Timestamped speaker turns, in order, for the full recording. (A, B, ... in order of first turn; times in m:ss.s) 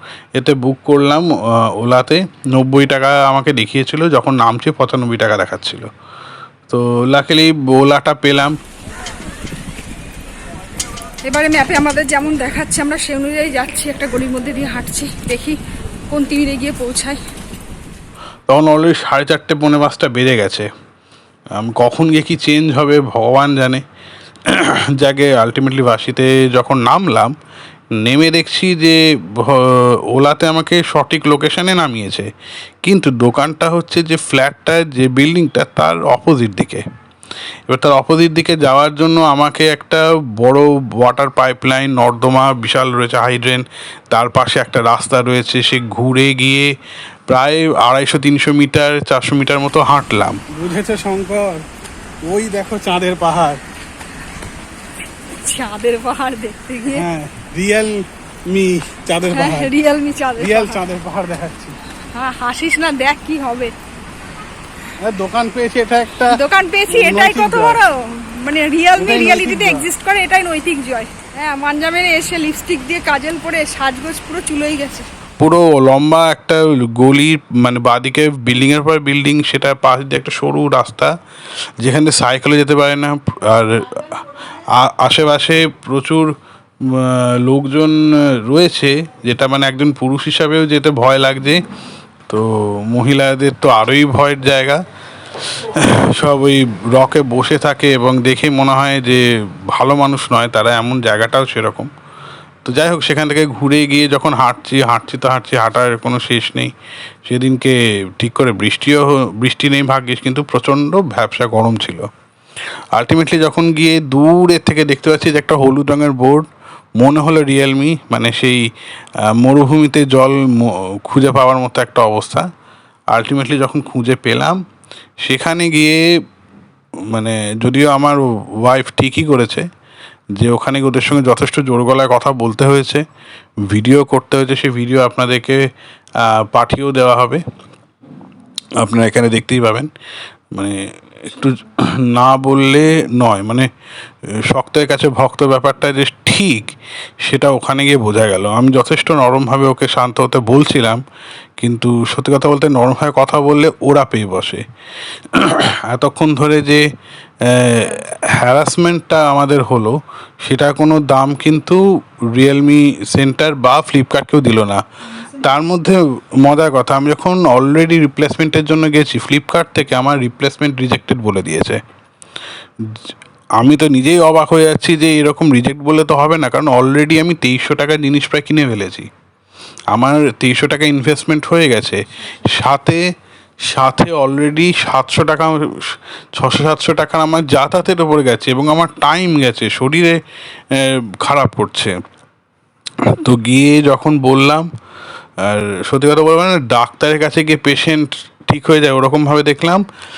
0:00.4-0:05.9 A
0:06.7-0:08.6 A
0:11.3-0:15.6 B
0:16.1-0:17.2 B
0:18.5-0:20.7 A
0:21.6-0:23.8 A
0:24.5-0:27.3 A
0:28.0-0:32.3 A
0:32.8-0:36.8 A
0:37.7-0:46.7 A
0:47.3-0:50.4 A
0:50.5-0:51.6 C
0:52.2-0:53.6 C
0:55.4-0:57.1 B
0:56.9-0:59.8 C
0:59.3-1:00.8 B
1:00.4-1:01.8 C
1:02.1-1:03.7 B
1:05.0-1:06.3 C
1:06.3-1:15.1 B
1:06.9-1:07.8 C
1:09.0-1:09.9 C
1:15.4-1:21.2 A
1:21.8-1:26.3 A
1:26.8-1:31.6 A
1:32.3-1:34.8 A
1:35.4-1:41.9 A
1:42.6-1:46.7 A
1:47.3-1:52.1 A
1:52.9-1:56.5 A
1:57.0-1:58.7 A
1:59.3-2:02.5 A
2:03.1-2:04.6 A
2:05.2-2:06.0 A
2:07.1-2:09.7 A
2:10.4-2:13.0 A
2:13.7-2:15.6 A
2:16.2-2:17.4 A
2:18.8-2:19.9 A
2:20.5-2:23.7 A
2:24.5-2:26.7 A
2:27.2-2:31.0 A
2:31.6-2:34.6 A
2:35.3-2:36.8 A
2:37.4-2:41.8 A
2:42.3-2:44.8 A
2:45.4-2:51.8 A
2:53.6-2:59.1 A
2:59.9-3:03.0 A
3:03.7-3:10.2 A
3:10.7-3:11.9 A
3:13.0-3:14.7 A
3:15.4-3:19.8 A